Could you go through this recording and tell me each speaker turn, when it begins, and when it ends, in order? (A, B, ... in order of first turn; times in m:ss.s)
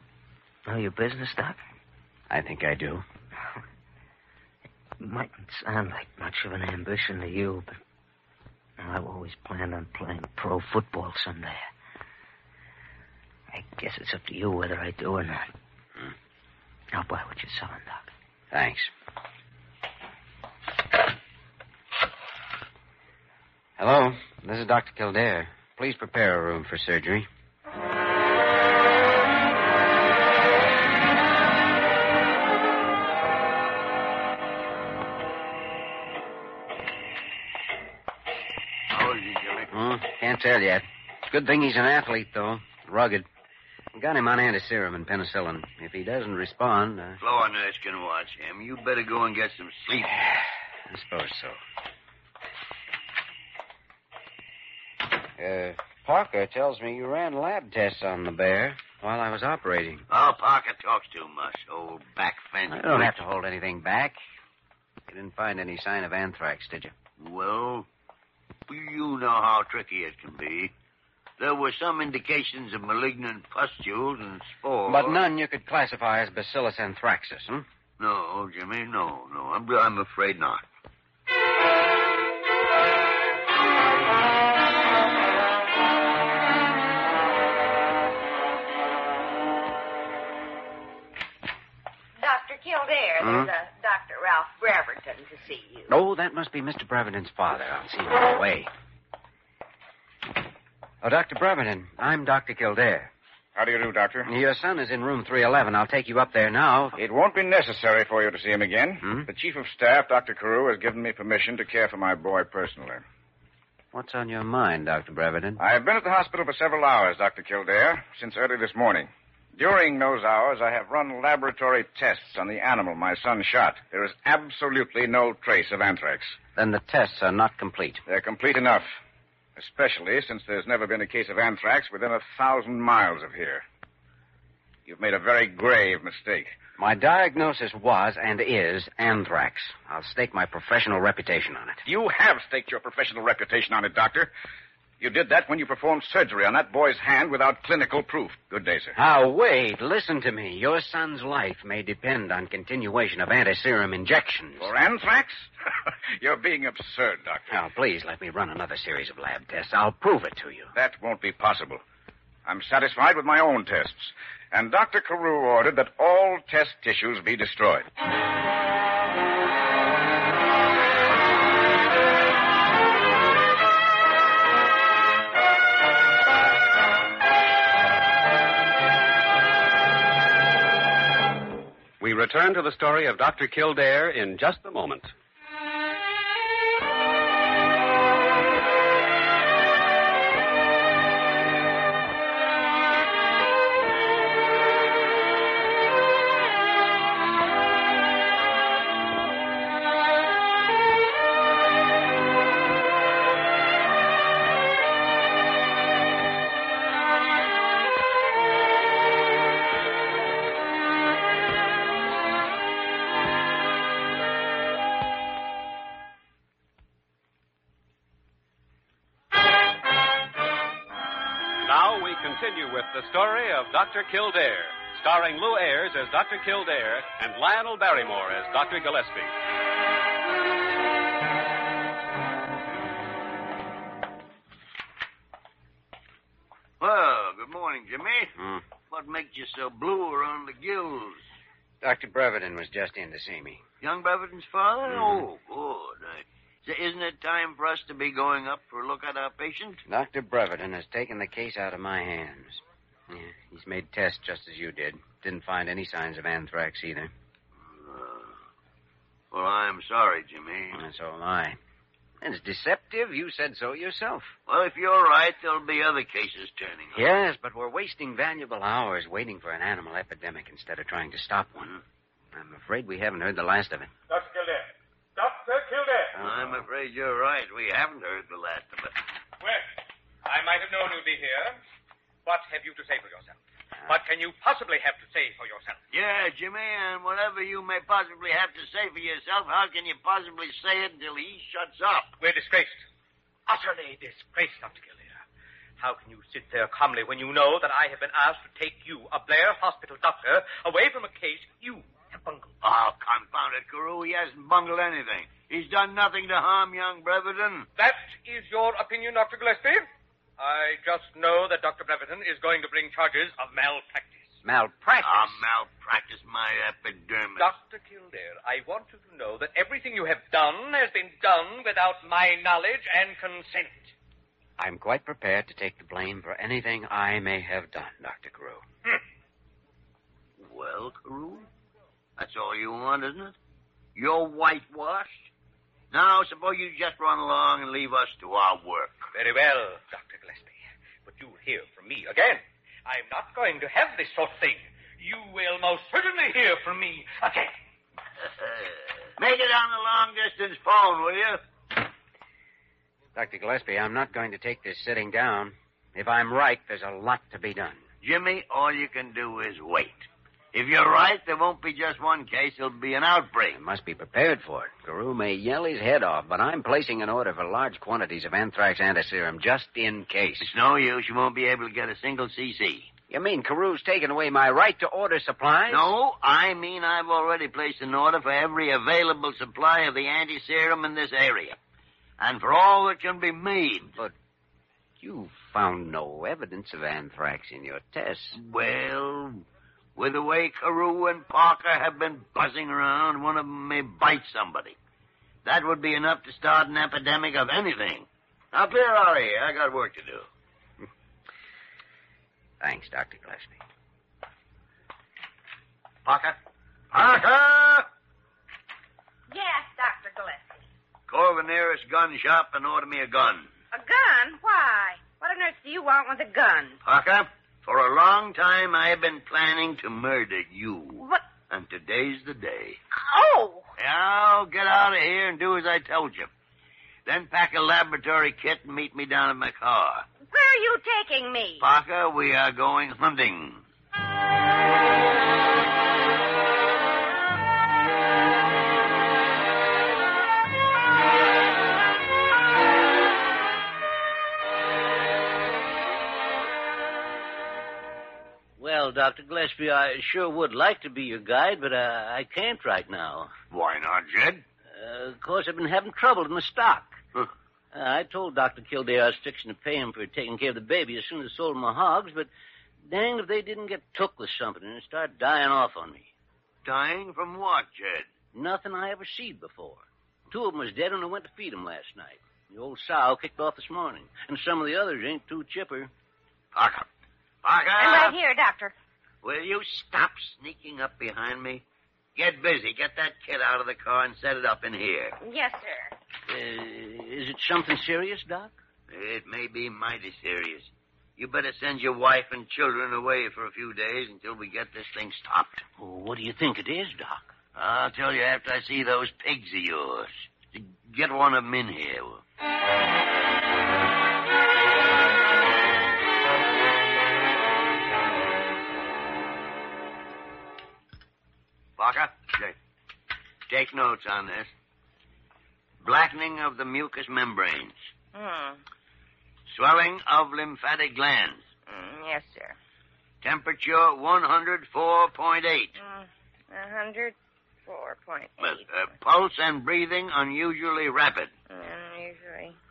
0:00.6-0:01.6 A
0:02.3-0:03.0 B
0:05.0-0:07.8 A
0:08.8-0:11.7 A
0:13.5-0:15.5 A
0:16.9-0:18.1 A
0:18.5-0:18.9 B
0:23.8-0:27.3 B
0:38.9-0:39.7 C
0:39.7-0:43.3 B
0:43.9-0:47.2 B
0:47.2-0:50.2 C
0:50.9-0:51.6 B
0:55.4-1:00.0 B
1:00.1-1:03.1 C
1:02.7-1:04.2 B
1:05.1-1:06.9 B
1:07.2-1:07.9 C
1:08.7-1:10.7 C
1:11.4-1:15.2 C
1:14.9-1:17.6 B
1:18.0-1:20.6 C
1:32.2-1:35.9 D
1:33.2-1:33.5 B
1:35.9-1:38.7 B
1:41.0-1:43.1 B
1:43.6-1:44.3 E
1:44.2-1:47.0 B
1:47.0-1:53.0 E
1:53.9-1:55.6 B
1:55.6-2:06.4 E
2:06.5-2:08.0 B
2:08.1-2:08.9 E
2:09.6-2:13.6 E
2:14.8-2:16.6 E
2:16.8-2:21.8 B
2:21.8-2:24.3 E
2:25.0-2:28.9 E
2:28.9-2:34.7 B
2:34.6-2:35.5 E
2:36.2-2:37.6 E
2:37.5-2:40.7 B
2:40.7-2:41.8 E
2:42.4-2:47.9 E
3:02.0-3:05.1 F
3:41.6-3:49.3 F
3:56.8-3:58.4 C
3:58.9-4:01.2 C
4:01.8-4:03.6 B
4:03.8-4:09.8 C
4:04.9-4:05.2 B
4:09.9-4:17.1 B
4:17.6-4:18.3 C
4:19.3-4:20.8 C
4:20.7-4:21.6 B
4:22.2-4:24.3 B
4:24.5-4:27.0 C
4:26.9-4:31.8 B
4:32.3-4:33.9 B
4:34.1-4:36.2 G
4:36.2-4:36.6 B
4:36.2-4:39.0 C
4:39.4-4:39.7 G
4:40.2-4:41.6 G
4:42.2-4:45.8 G
4:45.9-4:52.1 C
4:52.2-4:52.8 G
4:53.5-4:55.2 G
4:55.8-5:02.5 G
5:02.6-5:07.7 C
5:07.8-5:09.9 G
5:10.4-5:14.3 G
5:14.4-5:15.4 B
5:15.0-5:17.5 C
5:17.4-5:23.9 G
5:24.6-5:28.6 B
5:30.4-5:31.5 C
5:32.2-5:33.3 C
5:34.0-5:35.3 C
5:35.9-5:39.1 C
5:39.1-5:47.5 G
5:49.2-5:51.4 C
5:53.1-5:57.8 B
5:58.0-6:03.6 C
6:03.5-6:10.5 B
6:10.4-6:12.9 C
6:13.1-6:15.9 B
6:15.7-6:21.6 C
6:22.2-6:24.0 C
6:25.0-6:28.4 B
6:28.4-6:29.4 C
6:30.0-6:34.8 C
6:35.4-6:40.2 C
6:42.6-6:43.6 B
6:46.0-6:46.4 C
6:46.9-6:47.9 C
6:49.3-6:50.6 D
6:51.1-6:53.5 C
6:53.7-6:56.8 D
6:56.8-7:02.8 C
7:01.0-7:01.2 D
7:03.0-7:03.6 D
7:03.8-7:06.3 C
7:07.0-7:10.1 C
7:10.3-7:11.6 D
7:11.6-7:13.6 C
7:28.6-7:33.3 H
7:33.5-7:34.4 C
7:34.7-7:36.9 H
7:37.7-7:42.3 H
7:42.8-7:46.1 H
7:46.6-7:48.1 C
7:48.3-7:55.9 H
7:56.5-7:56.9 C
7:57.4-7:58.1 C
7:57.8-7:58.7 D
7:59.2-8:01.6 C
8:02.2-8:05.2 C
8:05.2-8:05.9 D
8:06.3-8:08.5 H
8:08.9-8:15.6 C
8:15.8-8:17.3 H
8:17.5-8:22.2 C
8:31.8-8:32.5 C
8:33.5-8:34.5 C
8:35.8-8:37.7 C
8:38.1-8:38.6 D
8:39.5-8:41.4 C
8:41.7-8:42.6 D
8:43.2-8:45.7 C
8:45.8-8:47.1 D
8:47.7-8:48.6 D
8:48.4-8:51.3 C
8:51.5-8:52.6 D